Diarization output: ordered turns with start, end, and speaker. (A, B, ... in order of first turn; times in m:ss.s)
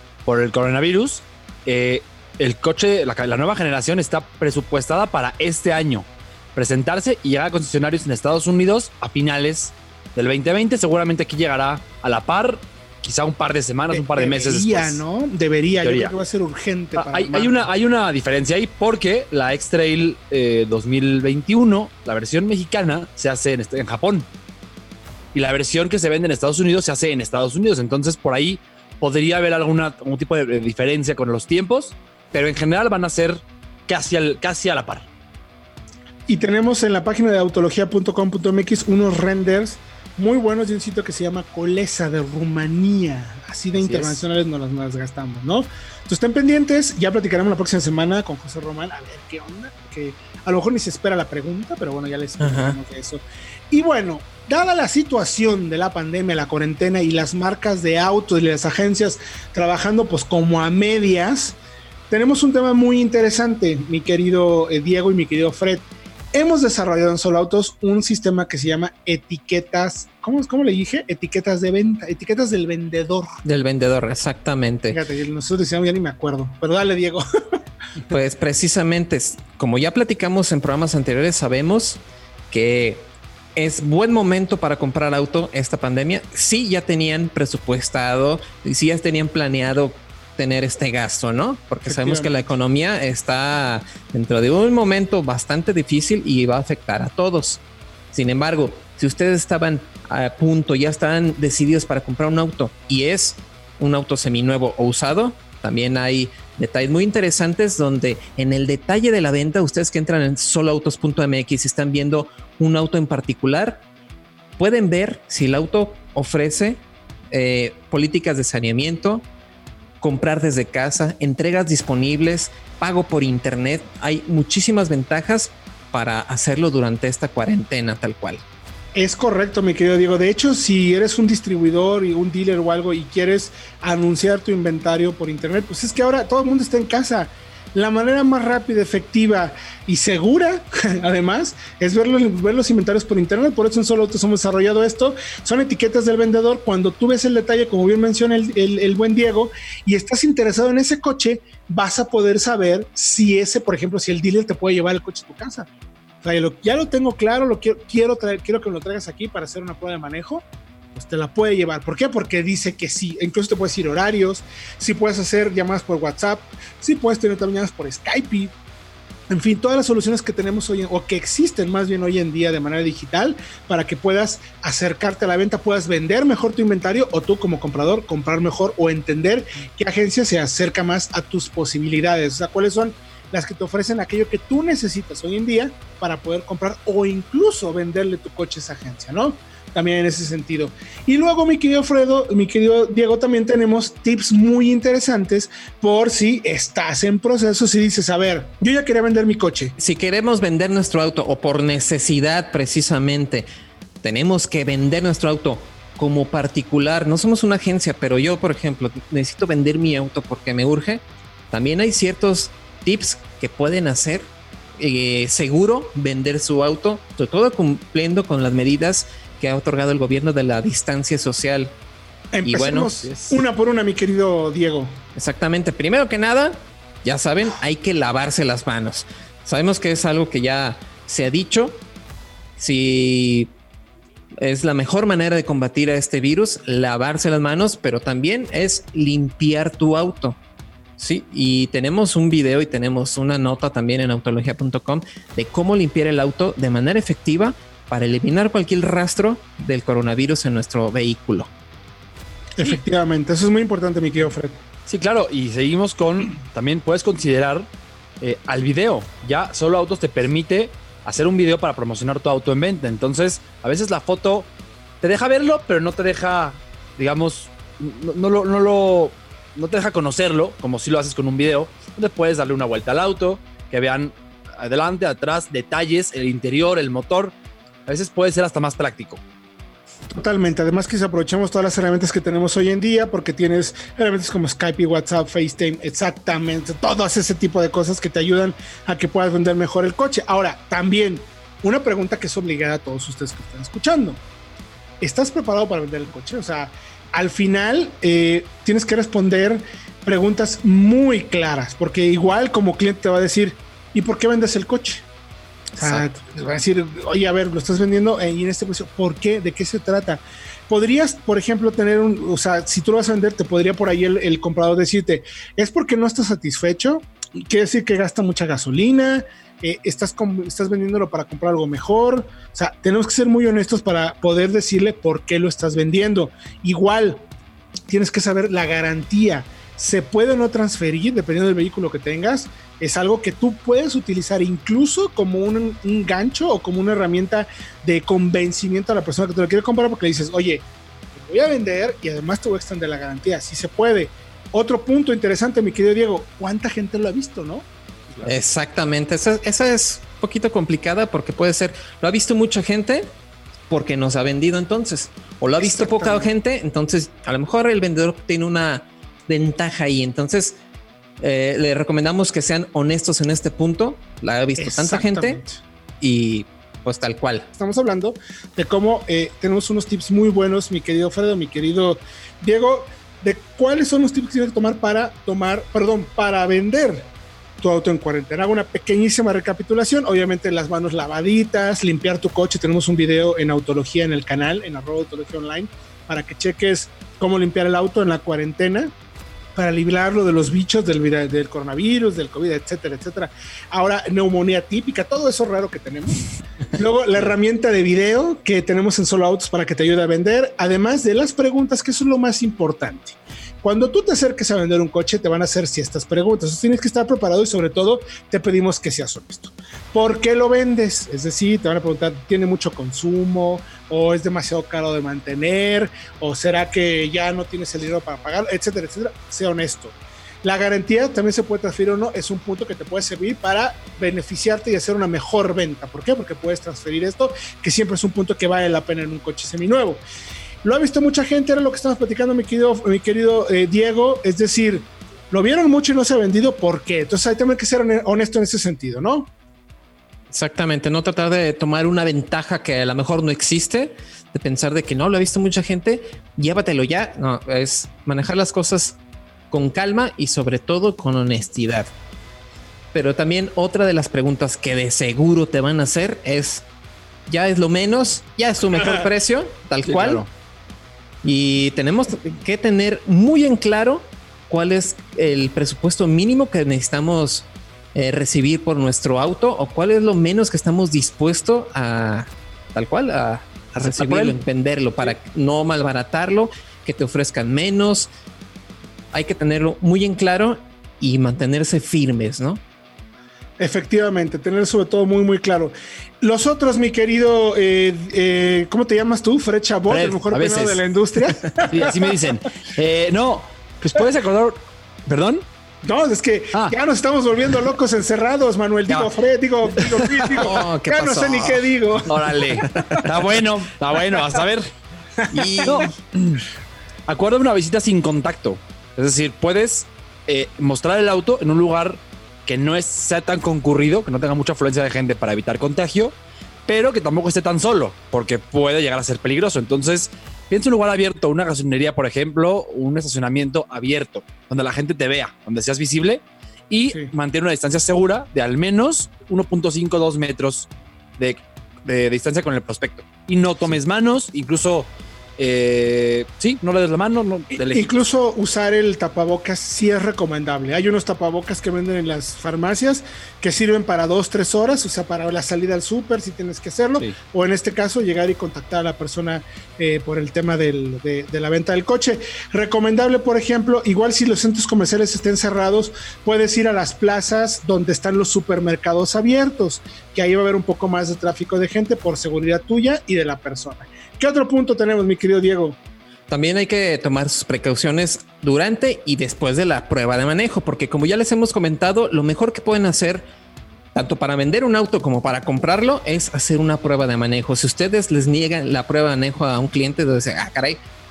0:00.2-0:15.0 A
0:13.9-0:17.7 B
0:15.8-0:16.1 A
0:17.0-0:24.3 A
0:25.3-0:35.1 A
0:36.3-1:01.6 B
0:43.7-0:44.2 A
0:52.4-0:52.8 C
1:02.1-1:13.3 B
1:13.4-1:15.0 C
1:14.9-1:17.2 B
1:18.1-1:53.8 C
1:31.8-1:32.5 B
1:54.6-1:59.2 C
2:00.0-2:08.4 C
2:08.9-2:35.7 B
2:36.2-2:48.5 B
2:49.3-3:19.8 B
3:19.8-3:23.4 C
3:24.0-3:41.7 C
3:42.3-3:45.0 B
3:42.4-3:42.9 C
3:43.0-3:43.4 A
3:45.2-3:51.8 C
3:52.6-3:53.5 C
3:54.4-4:00.4 C
4:01.0-4:11.5 C
4:12.6-4:14.6 B
4:14.9-4:17.7 A
4:18.2-4:24.5 A
4:25.0-4:37.3 A
4:37.8-4:39.2 A
4:40.1-4:54.2 B
4:55.0-5:05.0 B
5:05.8-5:27.2 B
5:27.9-5:47.7 B
5:48.2-5:53.2 C
5:53.7-6:00.6 C
5:55.6-5:56.3 B
6:01.2-6:05.4 C
6:04.6-6:05.6 B
6:06.0-6:07.5 C
6:07.5-6:28.9 B
6:29.5-6:36.2 B
6:36.7-7:10.0 B
7:10.6-7:19.3 B
7:20.3-7:29.0 C
7:29.5-7:31.9 C
7:32.9-7:36.6 C
7:37.3-7:40.2 C
7:39.8-7:40.3 A
7:41.2-7:58.1 C
7:53.8-7:54.4 A
7:59.1-8:02.6 C
8:03.6-8:12.2 B
8:09.9-8:10.8 A
8:11.6-8:15.4 A
8:15.8-8:23.0 B
8:19.8-8:20.5 A
8:20.4-8:21.7 C
8:22.1-8:24.7 A
8:25.3-8:25.8 B
8:25.3-8:25.9 C
8:25.6-8:26.4 A
8:27.1-8:57.9 A
8:57.6-9:25.8 B
9:26.3-9:33.3 C
9:33.9-9:40.8 C